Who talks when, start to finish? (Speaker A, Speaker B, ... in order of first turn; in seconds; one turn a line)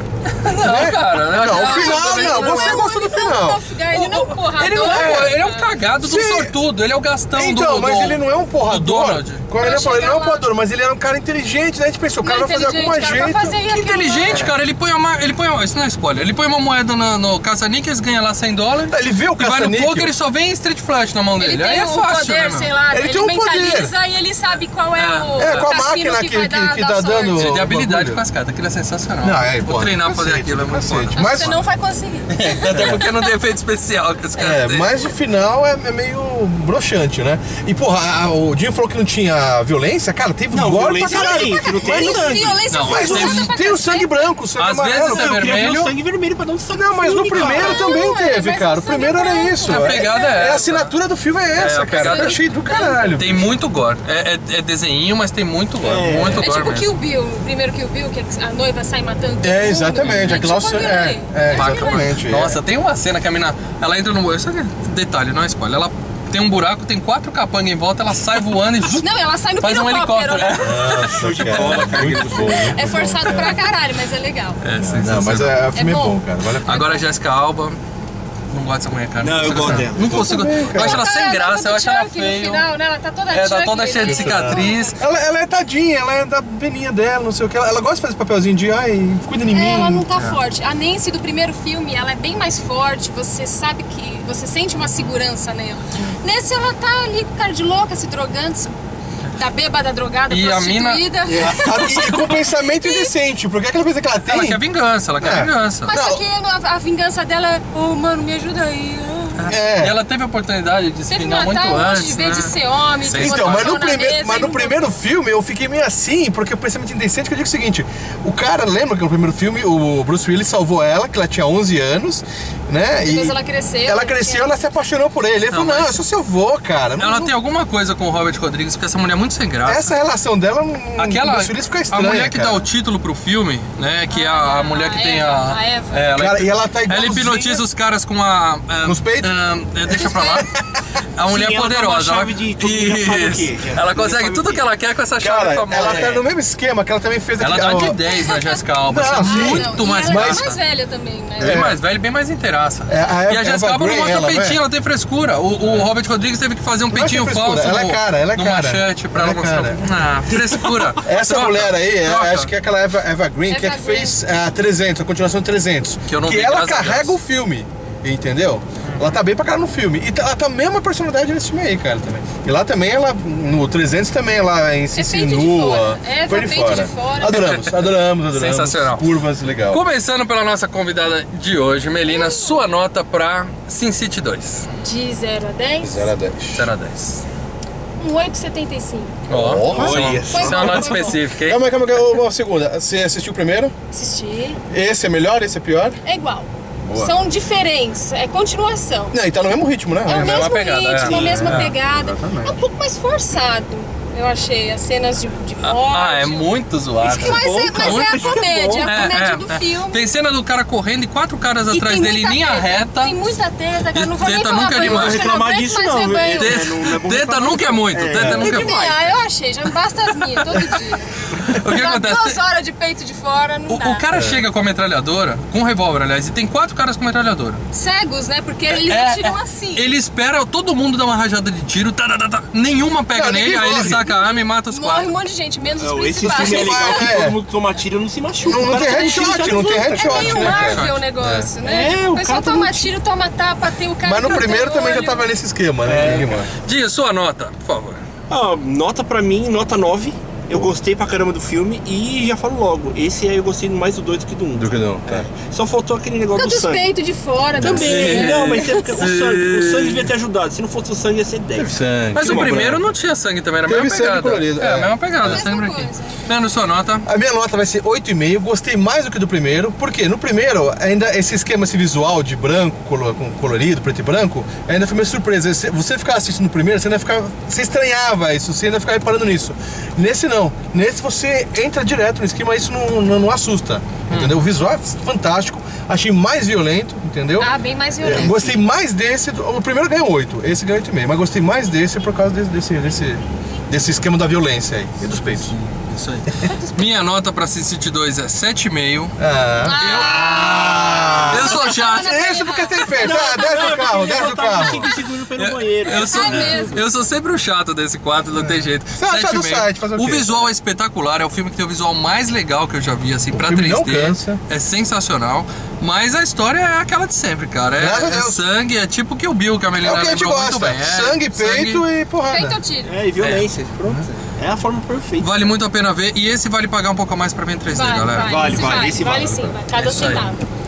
Speaker A: 0.4-2.8
Speaker B: 0.6-3.6
Speaker C: 1.3-5.8
Speaker A: 3.9-9.4
Speaker B: 4.8-5.4
Speaker B: 6.0-6.5
Speaker B: 7.3-13.6
Speaker C: 9.6-10.4
Speaker C: 12.2-14.5
Speaker A: 13.7-22.7
Speaker B: 18.9-20.1
Speaker C: 21.4-27.5
Speaker B: 22.9-23.9
Speaker A: 25.0-25.7
Speaker B: 25.4-28.2
Speaker A: 27.4-31.3
Speaker B: 29.2-31.6
Speaker C: 31.2-33.3
Speaker A: 32.3-34.9
Speaker B: 34.4-45.5
Speaker D: 40.5-43.4
Speaker C: 41.0-44.2
Speaker A: 42.7-43.5
Speaker A: 44.6-45.9
Speaker D: 45.1-47.8
Speaker B: 46.7-53.5
Speaker C: 47.3-50.7
Speaker A: 49.7-51.0
Speaker A: 51.5-52.4
Speaker C: 52.0-53.1
Speaker A: 53.2-56.9
Speaker D: 55.8-56.5
Speaker C: 56.4-62.1
Speaker B: 59.4-62.6
Speaker A: 60.0-60.5
Speaker A: 61.5-69.1
Speaker C: 68.9-71.2
Speaker A: 69.6-72.5
Speaker B: 70.6-73.6
Speaker D: 71.1-72.8
Speaker C: 72.4-74.6
Speaker A: 74.6-75.6
Speaker B: 74.8-76.8
Speaker C: 75.7-76.2
Speaker A: 76.6-77.8
Speaker A: 78.5-82.7
Speaker D: 79.2-80.3
Speaker B: 79.6-81.0
Speaker C: 80.7-85.0
Speaker A: 83.3-85.0
Speaker B: 84.1-90.1
Speaker C: 89.5-98.8
Speaker C: 99.3-103.1
Speaker A: 100.3-101.0
Speaker D: 101.3-101.8
Speaker B: 101.5-104.6
Speaker A: 104.3-105.9
Speaker B: 105.2-106.2
Speaker C: 105.9-109.5
Speaker A: 109.4-112.5
Speaker B: 109.5-110.0
Speaker C: 111.1-114.8
Speaker A: 113.0-113.8
Speaker B: 113.2-127.3
Speaker C: 123.0-124.5
Speaker A: 125.5-126.0
Speaker A: 127.0-129.9
Speaker B: 129.7-132.7
Speaker A: 131.0-140.5
Speaker C: 134.1-136.1
Speaker B: 136.2-137.6
Speaker B: 138.8-139.3
Speaker B: 139.9-140.8
Speaker A: 141.2-146.1
Speaker D: 141.3-144.6
Speaker B: 145.2-148.0
Speaker D: 145.8-146.2
Speaker A: 147.4-150.6
Speaker C: 148.1-148.6
Speaker B: 148.9-150.4
Speaker C: 149.2-151.7
Speaker A: 151.4-162.5
Speaker B: 151.4-151.8
Speaker B: 152.9-154.6
Speaker B: 155.6-155.9
Speaker B: 156.9-159.8
Speaker B: 161.0-179.8
Speaker C: 163.5-164.2
Speaker A: 166.1-167.2
Speaker A: 168.8-169.2
Speaker C: 174.9-177.5
Speaker A: 177.2-179.1
Speaker A: 179.7-184.7
Speaker C: 182.1-182.7
Speaker C: 184.8-186.1
Speaker B: 185.8-186.7
Speaker A: 186.5-187.2
Speaker C: 188.0-189.1
Speaker A: 189.3-191.9
Speaker B: 189.3-190.2
Speaker D: 189.7-191.0
Speaker C: 190.3-191.2
Speaker B: 191.4-193.7
Speaker C: 193.9-194.6
Speaker B: 194.7-196.0
Speaker C: 196.0-199.2
Speaker B: 196.9-197.1
Speaker B: 199.1-200.5
Speaker C: 200.1-206.5
Speaker A: 200.1-201.7
Speaker B: 201.0-202.6
Speaker A: 205.6-208.3
Speaker C: 207.0-210.1
Speaker D: 207.0-209.0
Speaker A: 208.8-213.2
Speaker C: 211.7-216.6
Speaker A: 213.9-215.3
Speaker D: 214.8-219.2
Speaker A: 216.4-218.8
Speaker B: 218.1-218.5
Speaker C: 218.4-224.1
Speaker A: 221.4-222.4
Speaker A: 223.7-227.6
Speaker B: 224.1-224.4
Speaker C: 227.7-229.9
Speaker A: 228.7-235.1
Speaker B: 233.1-234.0
Speaker C: 233.9-237.1
Speaker D: 235.8-240.8
Speaker B: 236.2-237.4
Speaker C: 238.4-245.3
Speaker B: 238.5-241.5
Speaker A: 240.6-241.0
Speaker D: 241.6-242.9
Speaker B: 244.0-246.5
Speaker D: 245.8-246.4
Speaker A: 246.6-248.0
Speaker D: 248.3-256.9
Speaker B: 254.6-255.3
Speaker C: 256.4-258.9
Speaker D: 257.6-262.6
Speaker A: 257.6-260.1
Speaker B: 261.6-262.9
Speaker A: 262.1-267.1
Speaker B: 263.7-265.4
Speaker C: 265.2-266.4
Speaker B: 267.1-287.5
Speaker A: 284.1-284.4
Speaker C: 287.4-288.5
Speaker B: 288.0-295.5
Speaker D: 288.0-288.6
Speaker A: 295.3-299.1
Speaker B: 299.2-304.9
Speaker C: 299.6-304.9
Speaker A: 299.8-300.8
Speaker A: 301.3-302.4
Speaker D: 302.9-306.8
Speaker A: 305.4-321.9
Speaker C: 305.8-306.8
Speaker B: 308.4-310.5
Speaker B: 313.3-314.4
Speaker B: 317.8-318.4
Speaker B: 319.8-322.6
Speaker C: 322.3-322.9
Speaker D: 322.9-325.3
Speaker A: 323.2-323.5
Speaker A: 325.2-328.6
Speaker C: 327.7-330.4
Speaker D: 328.3-329.5
Speaker A: 329.8-330.3